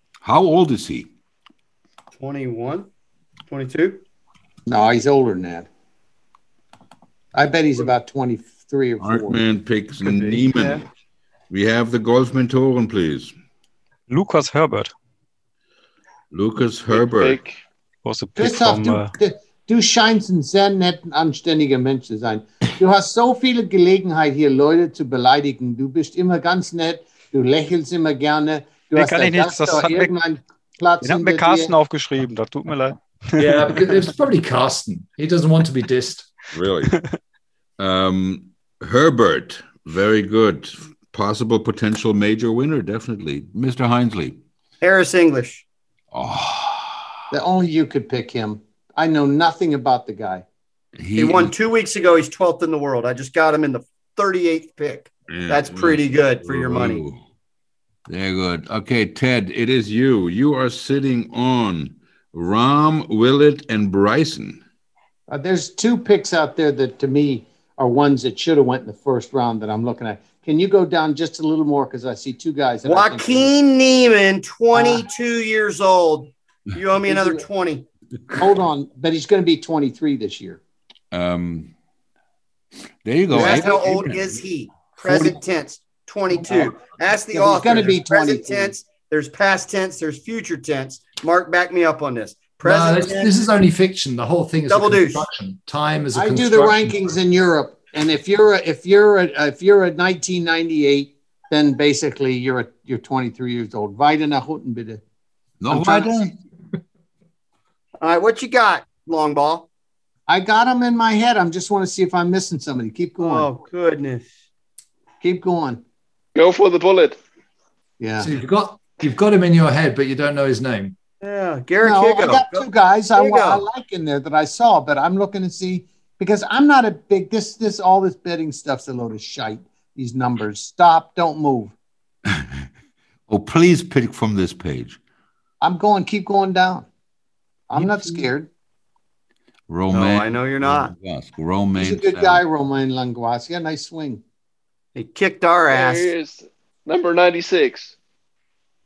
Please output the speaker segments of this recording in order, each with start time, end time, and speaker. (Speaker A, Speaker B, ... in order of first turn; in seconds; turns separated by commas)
Speaker A: 0.2-1.1, Speaker B: 2.2-2.9, Speaker B: 3.5-4.0, Speaker C: 4.7-5.7, Speaker C: 7.3-9.4, Speaker A: 9.0-10.8, Speaker B: 10.2-10.8, Speaker A: 11.5-13.3, Speaker D: 14.1-14.9, Speaker A: 16.3-17.4, Speaker E: 16.9-17.6, Speaker D: 18.0-19.1, Speaker C: 18.4-31.7, Speaker D: 28.9-30.1, Speaker D: 31.0-33.8, Speaker F: 33.4-36.3, Speaker A: 36.5-37.0, Speaker A: 37.8-44.4, Speaker B: 44.8-45.6, Speaker A: 46.1-47.1, Speaker C: 47.3-50.4, Speaker A: 51.0-51.5, Speaker B: 51.2-57.0, Speaker A: 55.3-57.2, Speaker A: 58.1-64.6, Speaker C: 65.3-73.5, Speaker B: 72.8-77.8, Speaker C: 74.7-75.0, Speaker C: 77.0-77.4, Speaker C: 78.4-80.6, Speaker A: 81.1-81.7, Speaker A: 83.0-84.4, Speaker B: 83.3-93.4, Speaker C: 83.3-83.7, Speaker A: 85.0-85.3, Speaker C: 87.3-88.7, Speaker F: 92.6-97.1, Speaker B: 94.7-95.2, Speaker C: 96.1-105.0, Speaker A: 105.6-106.3, Speaker C: 105.7-106.2, Speaker B: 108.0-109.7, Speaker C: 110.3-113.5, Speaker B: 113.2-114.2, Speaker C: 115.2-115.8, Speaker E: 116.3-117.2, Speaker C: 118.0-118.3, Speaker F: 118.2-120.9, Speaker B: 121.2-123.6, Speaker C: 121.8-131.7, Speaker A: 132.3-132.7, Speaker A: 133.3-135.0, Speaker C: 135.6-136.9, Speaker C: 137.7-138.5, Speaker A: 137.7-138.3, Speaker A: 139.7-142.4, Speaker B: 139.9-140.9, Speaker C: 141.8-144.2, Speaker B: 144.9-146.1, Speaker E: 145.7-147.9